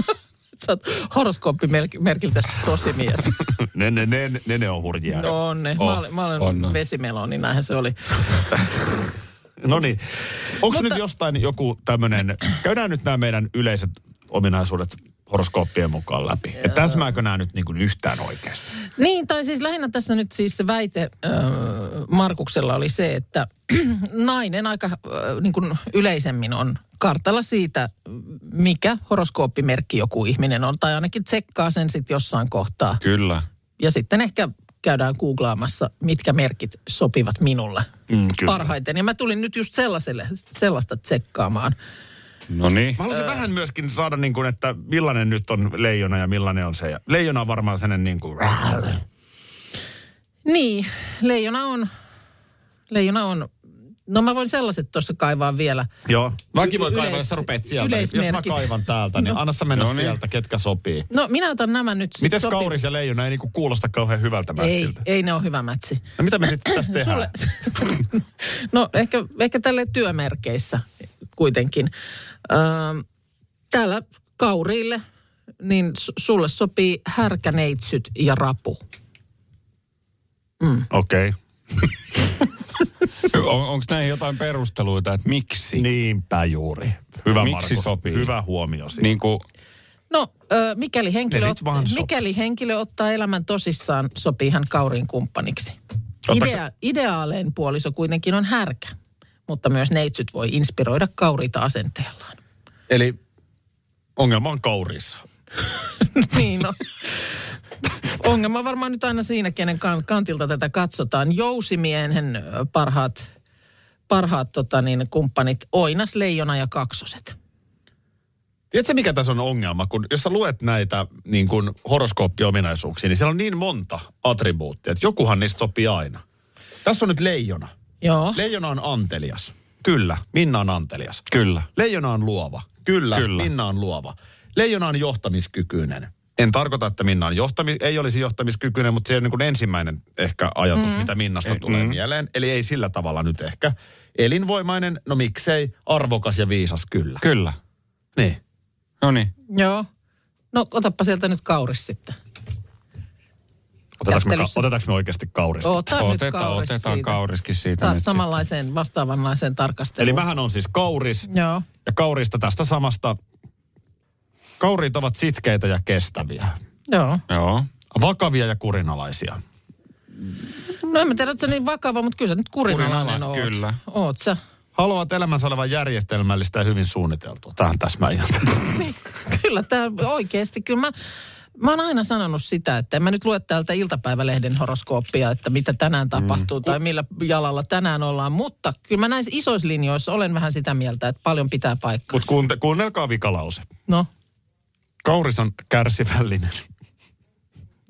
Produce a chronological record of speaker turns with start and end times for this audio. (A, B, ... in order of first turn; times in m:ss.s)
0:00.6-0:03.4 A
0:03.5-0:05.4 B
0:05.1-0:08.5 A
0:06.4-0:06.8 C
0:09.6-0:18.7 B
0:10.7-0:11.0 A
0:19.0-0:33.0 A
0:33.0-0:33.4 C
0:33.8-0:37.9 A
0:38.1-0:38.7 B
0:38.4-0:41.8 A
0:42.5-0:43.0 C
0:43.0-0:49.0 B
0:50.5-0:51.9 A
0:52.9-0:53.5 A
0:54.1-0:55.9 A
0:56.1-1:01.1 B
0:56.6-0:59.4 A
0:59.7-1:00.2 C
1:01.1-1:02.8 A
1:02.2-1:05.0 B
1:04.6-1:06.0 A
1:06.2-1:07.3 B
1:06.6-1:11.9 A
1:12.5-1:13.0 A
1:13.7-1:15.0 A
1:15.6-1:18.8 A
1:20.6-1:20.9 A
1:20.9-1:21.4 B
1:23.2-1:25.8 C
1:25.8-1:29.2 B
1:27.3-1:28.3 C
1:29.0-1:29.4 C
1:30.1-1:35.8 A
1:31.3-1:32.1 B
1:36.3-1:36.6 B
1:36.3-1:38.9 A
1:39.5-1:42.4 A
1:42.9-1:43.2 B
1:44.2-1:45.2 B
1:46.1-1:46.8 A
1:48.1-1:53.3 A
1:54.1-1:57.4 A
1:58.7-2:06.2 B
2:06.8-2:07.7 B
2:08.0-2:08.4 A
2:08.3-2:27.2 B
2:11.3-2:11.7 C
2:13.1-2:13.5 C
2:20.8-2:21.1 A
2:21.4-2:22.0 C
2:27.2-2:27.6 C
2:29.0-2:29.3 C
2:29.5-2:29.9 A
2:30.5-2:32.2 A
2:34.0-2:35.9 B
2:34.0-2:34.6 A
2:35.6-2:37.2 A
2:35.9-2:38.4 C
2:37.8-2:40.2 A
2:40.0-2:41.3 B
2:41.3-2:41.7 A
2:41.8-2:43.2 B
2:44.6-2:46.6 B
2:46.9-2:47.2 A
2:47.3-2:47.7 C
2:47.9-2:49.4 B
2:50.8-2:54.4 A
2:52.7-2:53.8 C
2:54.8-2:58.8 B
2:58.8-3:00.9 A
3:01.6-3:12.3 A
3:06.2-3:06.4 C
3:12.1-3:13.7 B
3:15.0-3:16.6 B